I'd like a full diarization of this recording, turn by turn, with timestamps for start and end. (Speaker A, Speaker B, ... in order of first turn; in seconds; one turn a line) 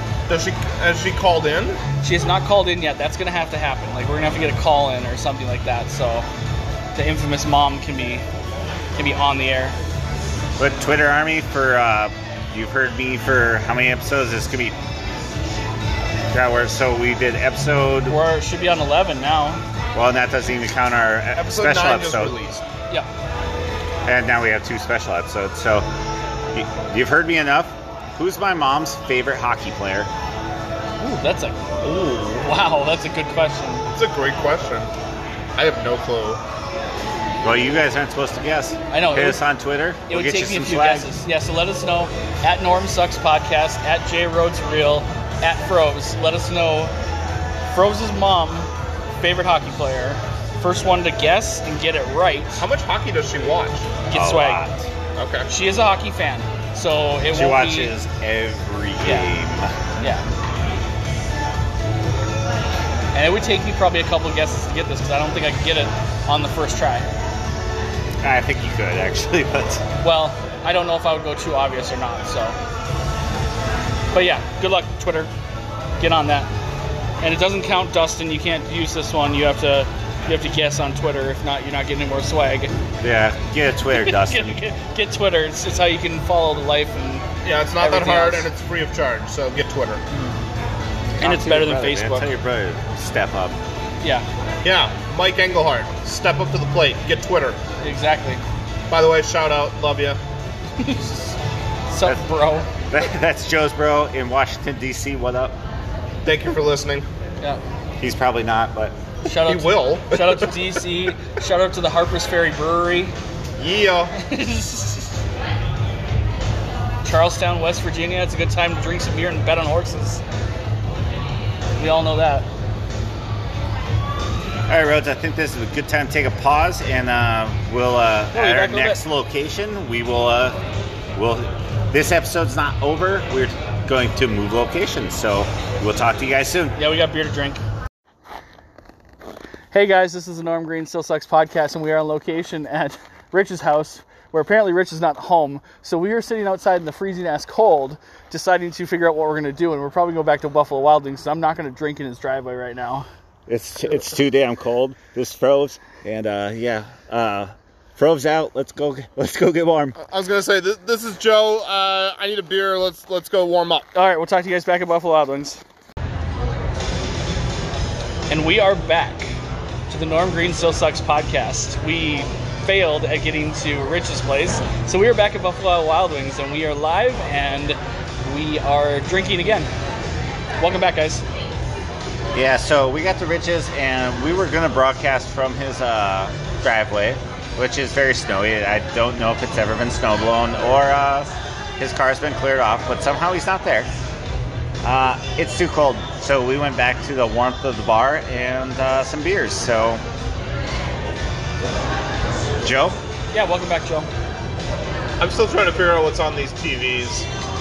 Speaker A: 0.3-1.8
Speaker B: 2.0-6.3
Speaker B: 7.0-8.2
Speaker B: 9.0-9.8
Speaker C: 10.6-14.8
Speaker C: 16.3-18.2
Speaker B: 18.1-19.6
Speaker C: 19.9-22.4
Speaker A: 21.4-22.6
Speaker C: 24.1-25.9
Speaker C: 26.5-30.1
Speaker B: 31.0-31.6
Speaker A: 31.8-32.5
Speaker B: 32.4-33.9
Speaker A: 33.9-34.9
Speaker A: 35.6-36.4
Speaker C: 37.4-41.1
Speaker B: 38.9-39.4
Speaker B: 40.1-46.9
Speaker B: 47.7-52.6
Speaker A: 52.6-53.9
Speaker B: 54.1-54.7
Speaker C: 54.1-54.9
Speaker A: 55.2-55.5
Speaker B: 55.5-57.9
Speaker C: 57.3-59.8
Speaker B: 59.0-59.3
Speaker B: 60.0-60.2
Speaker B: 63.1-67.1
Speaker C: 68.2-69.8
Speaker B: 70.0-72.6
Speaker B: 74.1-75.3
Speaker B: 76.0-76.5
Speaker B: 77.2-82.7
Speaker C: 83.0-84.6
Speaker B: 84.0-87.3
Speaker A: 87.4-90.0
Speaker B: 87.8-88.5
Speaker C: 91.2-93.6
Speaker B: 91.2-92.3
Speaker A: 94.6-97.6
Speaker B: 97.8-98.4
Speaker A: 98.9-100.2
Speaker B: 100.8-101.4
Speaker B: 101.9-102.7
Speaker C: 102.9-105.6
Speaker A: 106.2-107.1
Speaker C: 108.0-109.0
Speaker B: 109.2-113.2
Speaker A: 109.3-110.6
Speaker A: 113.6-114.2
Speaker B: 114.2-115.2
Speaker B: 117.0-120.2
Speaker B: 121.8-122.5
Speaker C: 124.7-130.6
Speaker B: 128.3-129.0
Speaker C: 131.2-136.8
Speaker B: 136.8-137.6
Speaker B: 139.7-153.1
Speaker C: 153.5-160.0
Speaker A: 160.0-163.9
Speaker B: 163.9-165.6
Speaker B: 168.3-169.3
Speaker B: 169.9-179.7
Speaker B: 180.6-181.2
Speaker C: 182.3-193.9
Speaker C: 194.8-200.0
Speaker C: 202.6-203.0
Speaker B: 203.3-204.1
Speaker A: 205.2-207.3